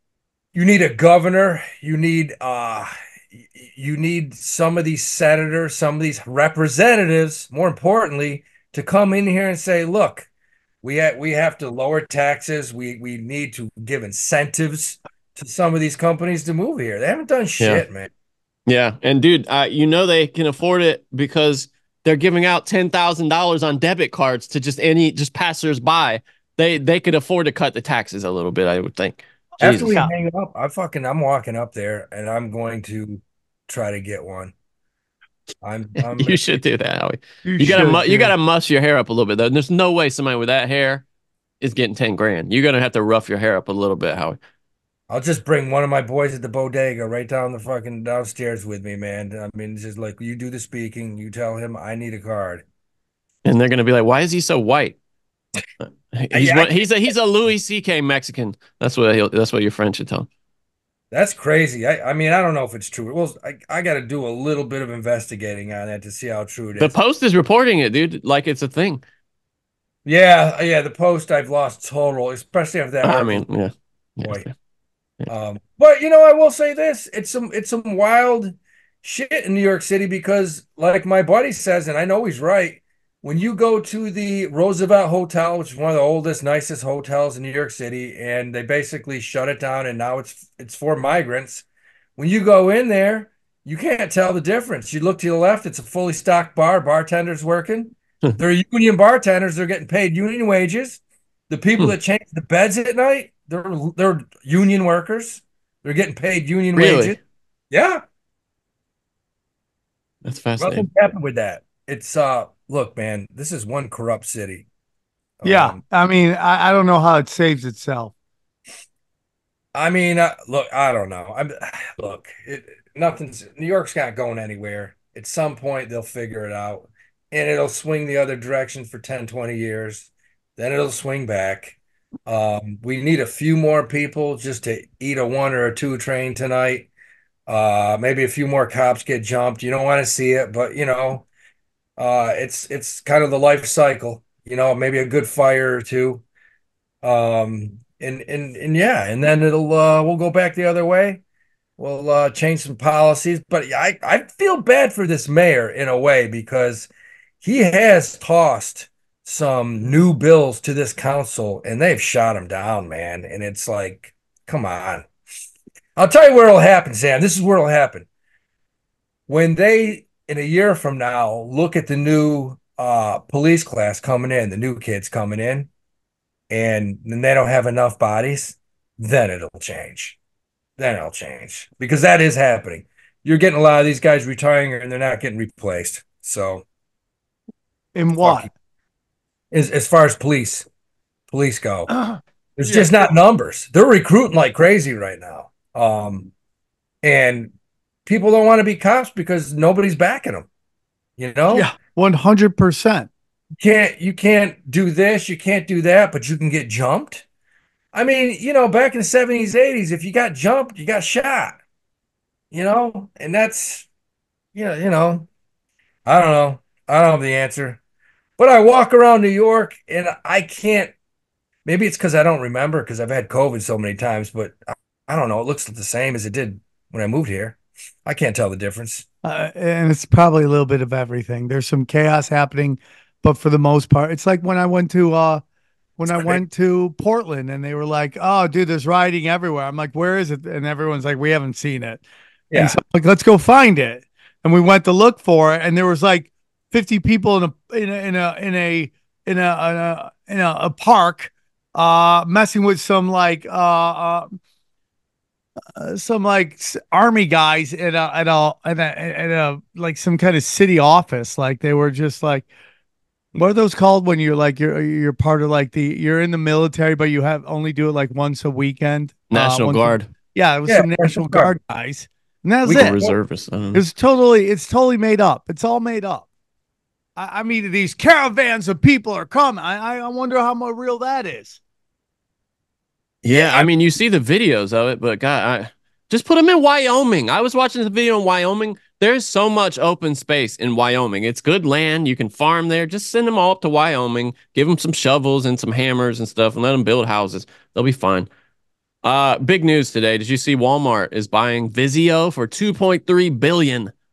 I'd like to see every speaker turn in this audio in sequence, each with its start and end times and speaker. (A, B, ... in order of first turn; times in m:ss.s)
0:00.5-0:10.3 A
0:10.8-0:18.1 A
0:18.7-0:30.0 B
0:29.6-0:34.5 A
0:29.6-0:30.1 C
0:35.6-0:36.6 A
0:36.0-0:41.0 B
0:37.4-0:38.3 C
0:41.6-0:44.4 B
0:45.1-0:52.6 A
0:53.4-0:55.0 B
0:55.8-1:00.3 B
0:56.3-0:56.9 A
1:01.1-1:06.9 A
1:06.8-1:09.0 B
1:10.0-1:13.4 A
1:13.0-1:14.5 B
1:15.3-1:31.6 A
1:32.2-1:47.2 A
1:46.7-1:47.2 B
1:47.7-1:48.0 A
1:50.2-1:50.9 B
1:50.6-1:54.6 A
1:55.4-1:55.8 A
1:55.4-1:58.1 C
1:59.7-2:16.9 A
2:17.5-2:21.2 A
2:22.0-2:26.2 A
2:27.0-2:31.2 A
2:31.8-2:36.9 A
2:37.4-2:45.1 A
2:46.0-2:48.1 A
2:49.3-2:55.7 A
2:56.5-3:00.2 A
3:00.8-3:06.6 A
3:07.9-3:08.5 C
3:08.2-3:08.5 A
3:09.5-3:10.6 A
3:11.3-3:11.9 A
3:11.9-3:12.9 C
3:12.6-3:16.3 A
3:17.0-3:17.5 A
3:18.1-3:20.5 A
3:21.2-3:21.7 A
3:21.5-3:23.1 C
3:23.6-3:27.2 A
3:27.9-3:31.6 A
3:32.5-3:33.9 A
3:34.6-3:35.3 A
3:36.1-3:37.8 A
3:38.4-3:40.9 A
3:41.6-3:44.6 A
3:45.1-3:49.0 A
3:49.2-3:55.4 C
3:56.0-4:02.0 C
3:56.1-3:56.4 A
4:02.5-4:02.8 A
4:02.5-4:14.4 C
4:15.7-4:22.5 C
4:23.4-4:33.0 C
4:29.3-4:30.1 B
4:30.6-4:31.6 A
4:32.6-4:33.2 A
4:32.7-4:33.8 B
4:33.7-4:36.2 C
4:37.2-4:41.6 C
4:43.2-4:58.3 B
4:43.3-4:43.7 C
4:59.0-5:03.9 B